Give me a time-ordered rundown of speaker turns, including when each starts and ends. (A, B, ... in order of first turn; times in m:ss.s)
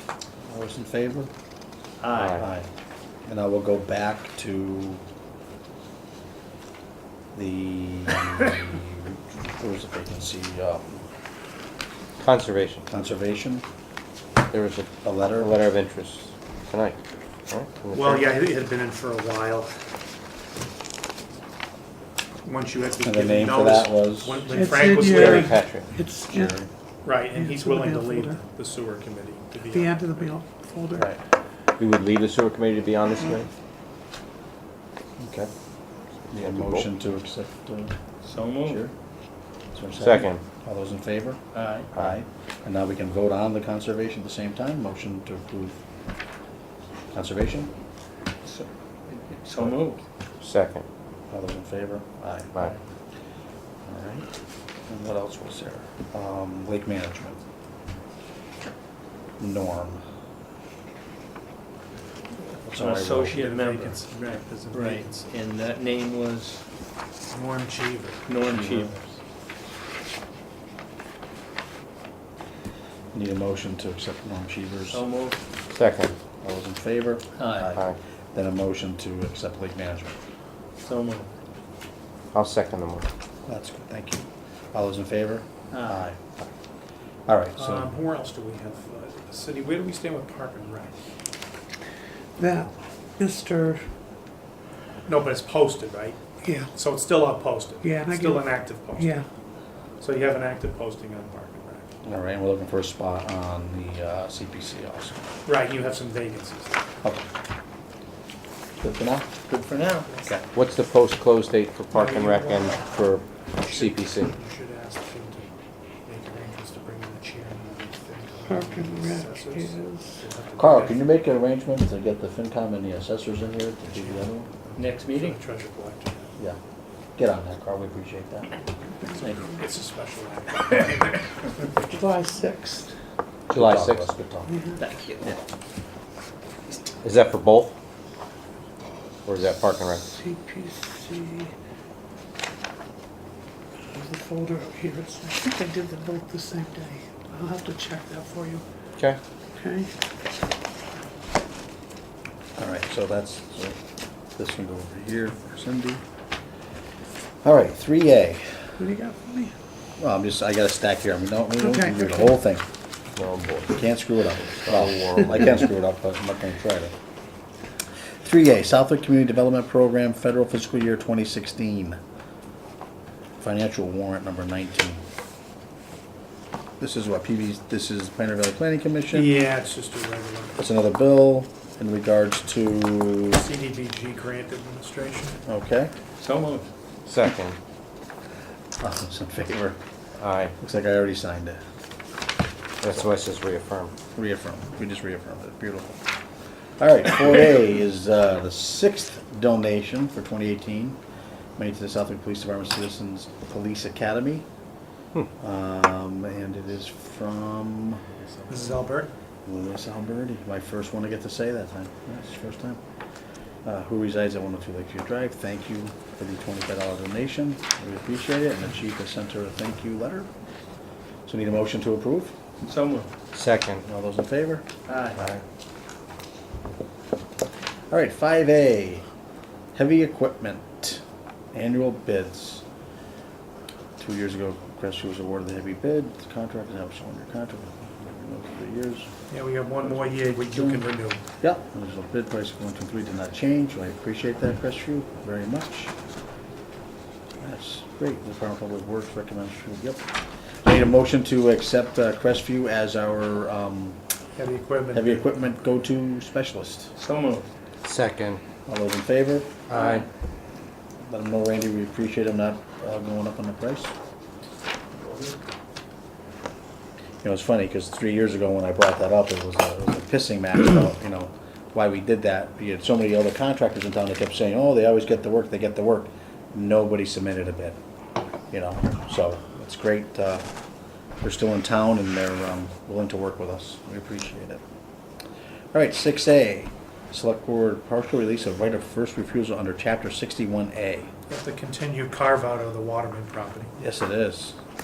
0:00.4-0:01.3 A
0:02.0-0:02.4 B
0:02.1-0:02.4 C
0:02.4-0:02.7 A
0:03.3-0:05.0 A
0:07.3-0:11.0 A
0:12.2-0:12.9 C
0:12.9-0:13.6 A
0:14.5-0:18.2 C
0:15.0-0:15.6 A
0:17.9-0:19.8 D
0:22.4-0:25.6 D
0:23.0-0:24.4 A
0:24.5-0:26.6 E
0:24.9-0:25.9 C
0:26.3-0:26.7 A
0:27.0-0:30.3 D
0:27.3-0:28.4 E
0:29.7-0:31.1 E
0:31.8-0:33.5 C
0:35.2-0:35.5 A
0:36.3-0:36.9 C
0:36.3-0:38.9 A
0:38.2-0:38.8 B
0:39.8-0:41.4 A
0:40.0-0:40.4 C
0:41.5-0:41.9 B
0:41.9-0:45.8 A
0:47.1-0:47.7 A
0:48.4-0:50.0 B
0:50.4-0:50.8 C
0:51.3-0:52.5 A
0:53.8-0:54.3 A
0:54.9-0:57.4 A
0:59.4-1:00.0 A
1:02.6-1:03.4 A
1:02.7-1:06.6 B
1:03.2-1:05.2 D
1:07.3-1:09.0 D
1:08.3-1:08.9 B
1:13.1-1:15.0 A
1:14.9-1:15.4 B
1:15.7-1:16.2 C
1:16.4-1:20.2 A
1:17.4-1:17.7 B
1:20.8-1:21.3 B
1:22.3-1:23.1 C
1:23.5-1:26.2 A
1:25.7-1:26.0 B
1:27.3-1:27.9 A
1:27.6-1:31.0 D
1:32.4-1:33.9 E
1:35.1-1:39.2 D
1:36.4-1:36.7 E
1:37.8-1:39.2 E
1:40.0-1:41.9 D
1:42.0-1:45.2 A
1:45.5-1:46.8 D
1:48.8-1:49.4 A
1:49.5-1:50.1 B
1:50.5-1:54.3 C
1:51.9-1:55.5 D
1:56.0-2:01.0 D
1:58.4-2:00.2 E
2:00.6-2:04.5 A
2:03.9-2:06.4 D
2:04.8-2:05.4 B
2:07.2-2:08.5 A
2:09.0-2:09.6 E
2:09.2-2:11.4 D
2:11.8-2:12.9 E
2:13.5-2:14.5 A
2:13.5-2:14.1 C
2:14.5-2:14.8 E
2:14.8-2:15.3 B
2:17.0-2:17.8 C
2:19.3-2:20.2 C
2:20.1-2:21.5 E
2:23.9-2:28.6 E
2:29.6-2:29.9 E
2:32.6-2:33.8 A
2:34.4-2:36.0 A
2:37.4-2:38.6 A
2:38.8-2:39.5 E
2:40.0-2:42.6 A
2:41.6-2:42.3 E
2:43.2-2:43.8 C
2:43.7-2:46.9 A
2:44.5-2:45.6 C
2:48.2-2:52.0 A
2:53.4-2:55.0 A
2:56.8-2:59.4 A
2:59.1-3:00.6 D
3:00.6-3:03.5 A
3:03.4-3:05.4 D
3:05.5-3:05.9 A
3:06.2-3:06.7 B
3:07.1-3:07.6 C
3:08.8-3:09.8 A
3:10.2-3:10.5 C
3:10.6-3:11.6 A
3:12.8-3:13.9 C
3:14.2-3:16.0 A
3:16.8-3:21.0 A
3:21.6-3:24.4 A
3:25.4-3:28.0 A
3:28.5-3:29.1 D
3:29.4-3:32.8 A
3:33.6-3:40.3 A
3:41.3-3:42.3 A
3:42.6-3:43.1 B
3:43.3-3:43.8 C
3:43.8-3:44.6 A
3:44.9-3:45.2 B
3:47.9-3:49.0 A
3:49.8-3:51.0 A
3:51.5-3:52.6 A
3:54.0-3:59.1 A
3:59.3-4:01.2 D
3:59.9-4:00.8 A
4:01.4-4:05.9 A
4:07.4-4:10.0 A
4:10.6-4:14.0 A
4:14.4-4:15.4 D
4:14.9-4:16.9 A
4:17.0-4:17.5 B
4:17.8-4:18.4 C
4:18.7-4:19.6 A
4:19.7-4:20.1 C
4:21.1-4:23.9 A
4:25.0-4:25.4 B
4:27.2-4:37.8 A
4:38.5-4:40.4 A
4:41.2-4:44.6 A
4:45.7-4:51.1 A
4:51.3-4:53.7 D
4:53.8-4:54.6 A